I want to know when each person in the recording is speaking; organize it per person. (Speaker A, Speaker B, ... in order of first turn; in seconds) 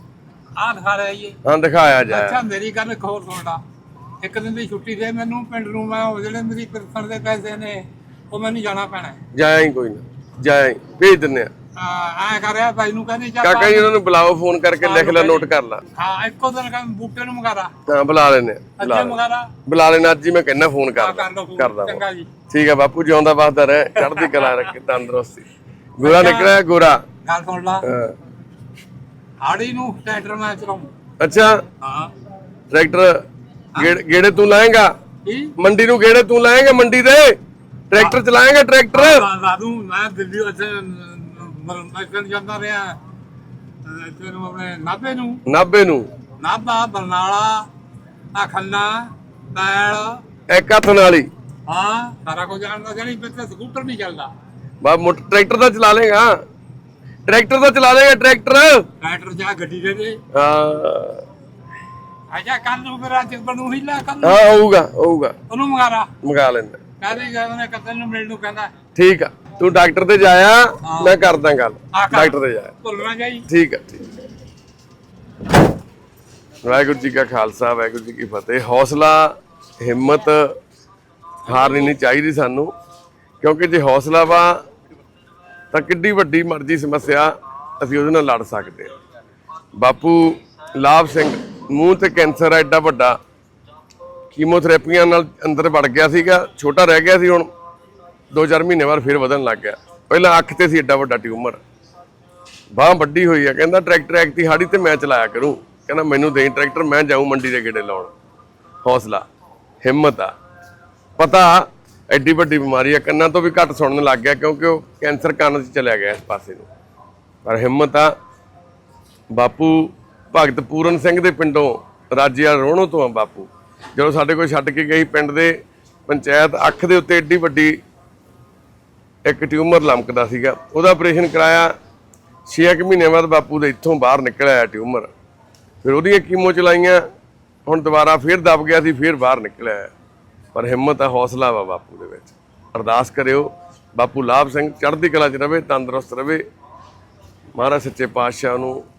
Speaker A: 0.6-1.4, 2.1-3.6, 4.2-9.2, 11.8-13.9, 14.8-17.7, 18.8-19.5, 21.0-22.3, 24.0-24.6, 26.0-26.5, 27.2-27.9, 29.4-30.9, 31.8-32.1, 35.2-35.5, 38.9-43.0, 43.9-45.4, 46.4-47.7, 48.3-50.2, 51.7-54.3, 59.0-60.2, 62.3-64.4, 65.5-66.1, 67.0-68.7, 70.8-71.2, 71.9-73.5
Speaker B: 1.4-2.4, 9.3-11.5, 13.4-15.8, 17.9-25.5, 26.0-27.0, 27.9-28.1, 31.2-31.6, 32.7-33.2, 33.8-34.9, 35.6-37.3, 37.9-39.2, 45.5-46.1, 50.5-51.3, 54.8-56.4, 57.3-58.9, 60.3-61.2, 64.2-65.3, 66.2-66.8, 69.0-72.7, 73.5-74.1, 76.6-80.5, 81.5-82.7, 83.4-84.6, 85.7-88.9, 89.8-93.2, 94.3-97.5, 98.3-101.6, 102.8-108.1, 108.8-109.2, 109.8-110.3, 111.2-116.7, 117.5-118.1, 119.3-125.5, 126.1-127.8, 129.3-131.7, 132.5-135.1, 135.8-137.0, 137.7-139.9, 140.5-146.4, 147.6-148.8